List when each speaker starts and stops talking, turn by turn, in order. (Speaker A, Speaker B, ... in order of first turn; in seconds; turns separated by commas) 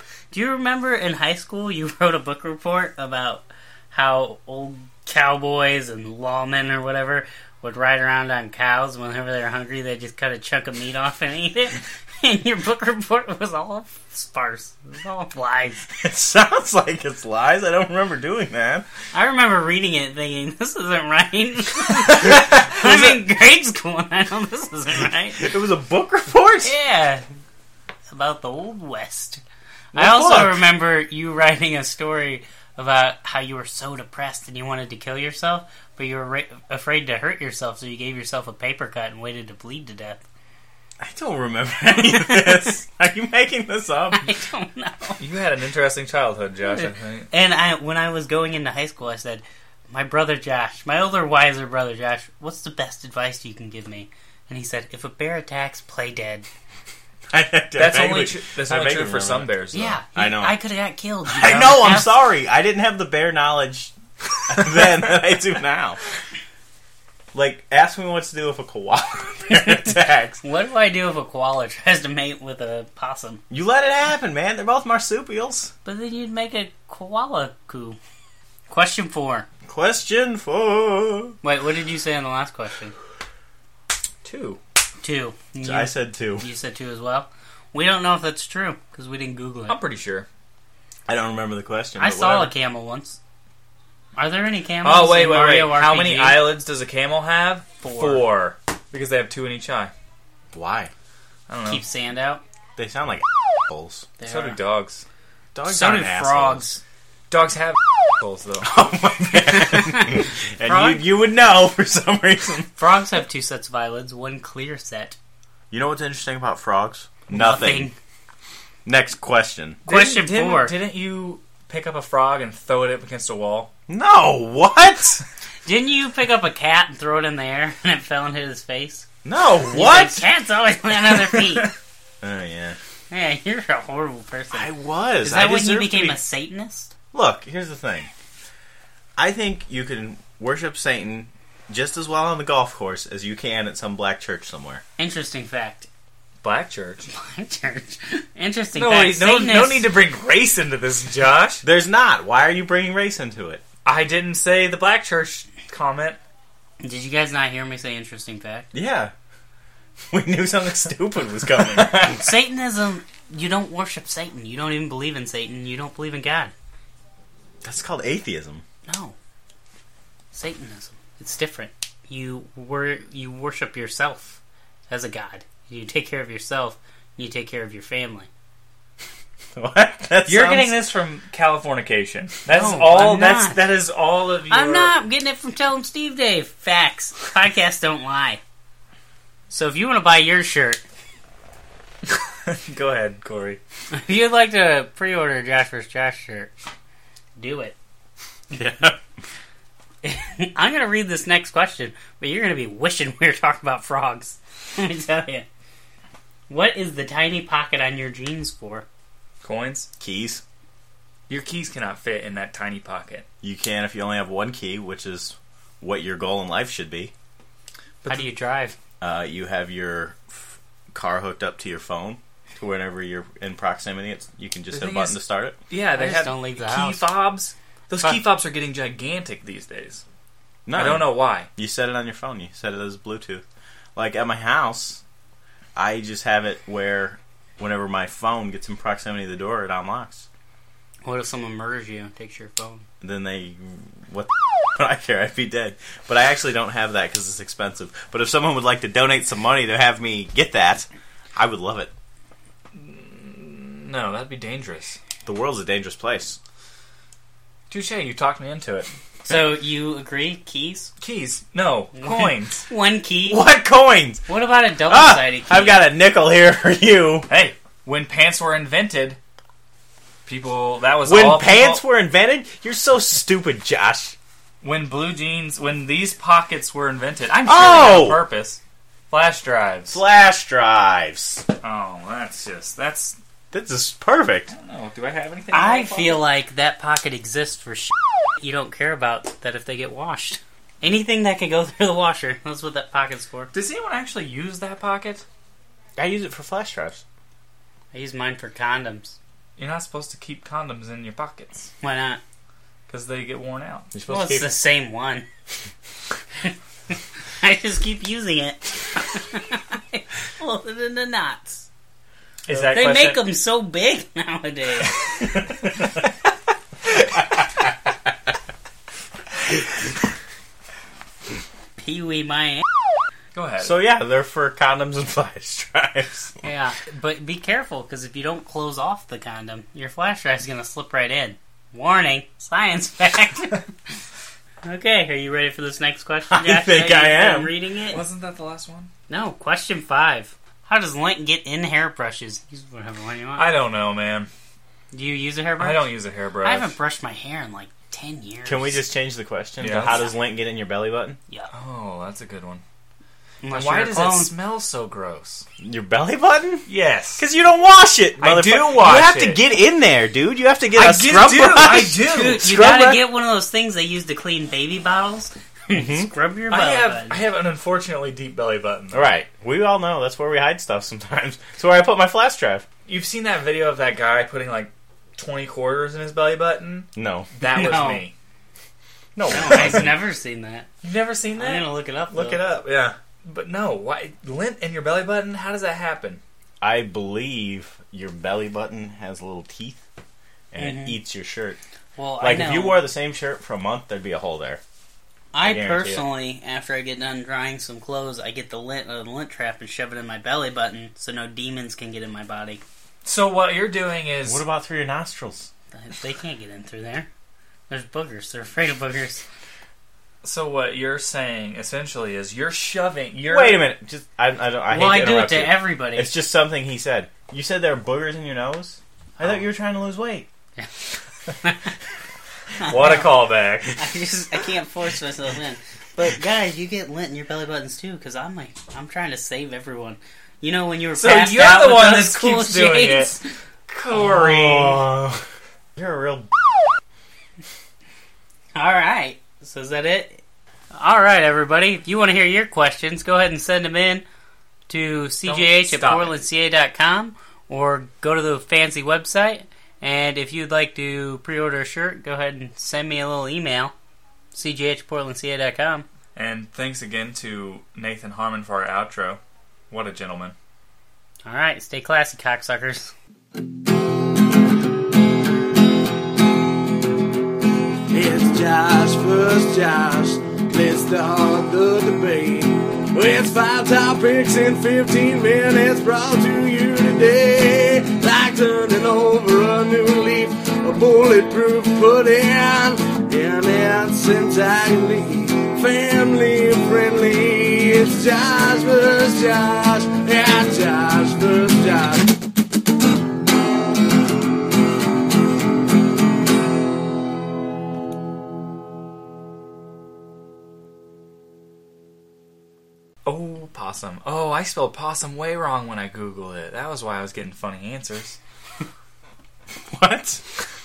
Speaker A: 0.3-15.9, Speaker B: 16.0-18.9, Speaker A: 19.1-25.5, Speaker B: 25.4-26.7, Speaker A: 26.6-27.2, Speaker A: 28.1-29.4, Speaker B: 29.9-30.7, Speaker A: 29.9-40.2, Speaker B: 41.0-44.3, Speaker A: 41.9-42.7, Speaker A: 44.1-45.2, Speaker C: 45.2-47.3, Speaker A: 46.6-56.5, Speaker B: 57.3-60.6, Speaker C: 57.8-60.0, Speaker A: 59.7-62.3, Speaker B: 61.3-63.9, Speaker C: 61.4-61.7, Speaker B: 64.5-66.0, Speaker B: 67.3-70.4, Speaker A: 69.5-73.4, Speaker B: 73.5-75.7, Speaker A: 75.8-78.0, Speaker A: 78.7-79.5, Speaker B: 79.7-81.4, Speaker A: 81.4-82.9, Speaker C: 84.2-84.6, Speaker A: 85.0-89.8, Speaker B: 85.6-86.5, Speaker C: 89.7-90.3, Speaker B: 91.1-92.5, Speaker A: 92.0-93.2, Speaker A: 94.2-96.5, Speaker C: 94.8-99.9, Speaker A: 97.8-98.2, Speaker B: 100.5-100.9, Speaker C: 101.5-101.8, Speaker A: 101.7-102.4, Speaker B: 102.8-104.1, Speaker A: 104.2-104.6, Speaker C: 104.2-105.0, Speaker B: 105.5-106.7, Speaker A: 105.7-106.8, Speaker C: 107.3-108.8, Speaker B: 108.6-112.7, Speaker A: 109.6-111.0, Speaker A: 112.8-115.2, Speaker B: 115.7-117.9, Speaker A: 117.3-118.0, Speaker B: 118.9-119.8, Speaker C: 119.9-123.7, Speaker A: 119.9-120.8, Speaker B: 123.9-125.2, Speaker A: 125.7-129.1, Speaker B: 129.2-130.3, Speaker A: 129.7-131.7, Speaker C: 131.1-131.7, Speaker B: 132.2-132.8, Speaker A: 133.1-136.9, Speaker B: 134.5-136.2, Speaker B: 137.1-138.1, Speaker B: 139.2-144.8, Speaker A: 145.0-145.9, Speaker C: 146.4-147.1, Speaker A: 147.1-149.9, Speaker C: 148.8-151.6, Speaker B: 151.6-153.6, Speaker C: 153.8-156.2, Speaker A: 156.8-158.7, Speaker B: 158.7-159.1, Speaker B: 160.1-162.3, Speaker A: 161.9-166.5, Speaker B: 167.6-168.6, Speaker A: 168.9-169.2, Speaker A: 170.3-178.3, Speaker B: 179.6-180.8, Speaker C: 180.2-184.9, Speaker A: 182.5-183.6, Speaker A: 184.5-188.4, Speaker A: 189.5-190.8, Speaker C: 192.1-193.6, Speaker A: 193.9-196.5, Speaker A: 197.4-197.8, Speaker B: 198.5-199.0, Speaker A: 200.0-205.5, Speaker A: 206.5-208.9, Speaker C: 209.4-209.9, Speaker B: 210.0-210.4, Speaker C: 211.3-213.2, Speaker B: 213.4-217.1, Speaker A: 218.1-218.8, Speaker B: 219.0-225.6, Speaker C: 224.7-230.0, Speaker A: 225.9-227.1, Speaker B: 230.7-233.4, Speaker C: 230.7-231.5, Speaker B: 234.0-235.0, Speaker B: 235.8-240.2, Speaker A: 241.0-242.8, Speaker B: 243.0-251.9, Speaker C: 252.7-255.0, Speaker B: 255.2-256.4, Speaker C: 257.7-258.9, Speaker A: 259.2-260.9, Speaker C: 261.0-262.7, Speaker A: 262.0-263.5, Speaker B: 263.3-264.3, Speaker A: 264.3-265.9, Speaker B: 264.9-267.3, Speaker C: 267.3-269.2, Speaker C: 270.3-271.8, Speaker B: 271.1-274.1, Speaker C: 274.6-280.0, Speaker B: 277.5-278.2, Speaker B: 279.9-281.4, Speaker C: 281.6-283.2, Speaker B: 283.5-284.5, Speaker C: 284.5-286.2, Speaker A: 285.5-293.5, Speaker C: 293.5-295.2, Speaker B: 296.0-297.0, Speaker A: 297.9-299.2, Speaker C: 299.6-301.7, Speaker A: 301.8-302.2, Speaker C: 302.9-303.9, Speaker B: 303.9-304.5, Speaker A: 304.1-305.3, Speaker A: 307.4-311.7, Speaker C: 312.5-313.2, Speaker A: 312.5-315.0, Speaker A: 321.8-322.6, Speaker C: 323.3-323.7, Speaker B: 323.6-326.4, Speaker A: 326.4-333.7, Speaker A: 334.6-338.0, Speaker B: 336.3-337.6, Speaker C: 337.9-338.9, Speaker A: 339.1-343.5, Speaker C: 343.4-344.3, Speaker A: 344.9-348.8, Speaker C: 345.6-346.7, Speaker B: 348.4-351.2, Speaker C: 349.6-350.0, Speaker A: 349.8-350.1, Speaker C: 351.5-352.6, Speaker A: 353.4-354.3, Speaker C: 353.5-355.4, Speaker B: 355.6-356.7, Speaker C: 356.7-357.2, Speaker B: 357.2-363.1, Speaker C: 358.2-359.4, Speaker C: 360.7-362.5, Speaker A: 362.1-367.2, Speaker B: 365.7-366.1, Speaker C: 366.5-369.1, Speaker B: 368.9-372.7, Speaker C: 372.9-378.1, Speaker B: 377.0-377.3, Speaker A: 377.4-378.1, Speaker B: 379.1-380.0, Speaker A: 379.3-380.7, Speaker C: 379.4-379.9, Speaker C: 380.8-386.2, Speaker A: 381.4-382.4, Speaker B: 386.6-389.8, Speaker B: 390.5-391.6, Speaker A: 390.6-391.0, Speaker A: 392.0-392.8, Speaker B: 392.2-394.6, Speaker A: 395.3-402.6, Speaker C: 395.4-396.0, Speaker B: 395.4-396.0, Speaker C: 403.0-404.4, Speaker B: 404.2-405.5, Speaker A: 405.7-407.1, Speaker A: 407.7-409.2, Speaker C: 410.2-413.7, Speaker B: 413.2-420.3, Speaker A: 414.7-416.1, Speaker A: 421.4-421.7, Speaker A: 422.6-423.1, Speaker C: 422.6-423.8, Speaker A: 423.7-433.3, Speaker C: 431.0-434.9, Speaker B: 433.9-435.2, Speaker B: 435.8-436.7, Speaker A: 438.5-440.2, Speaker A: 440.7-444.1, Speaker A: 444.7-453.7, Speaker C: 445.2-446.2, Speaker A: 454.3-455.9, Speaker C: 456.1-460.4, Speaker A: 461.2-462.9, Speaker D: 467.9-492.1, Speaker C: 503.1-508.2, Speaker B: 509.7-510.2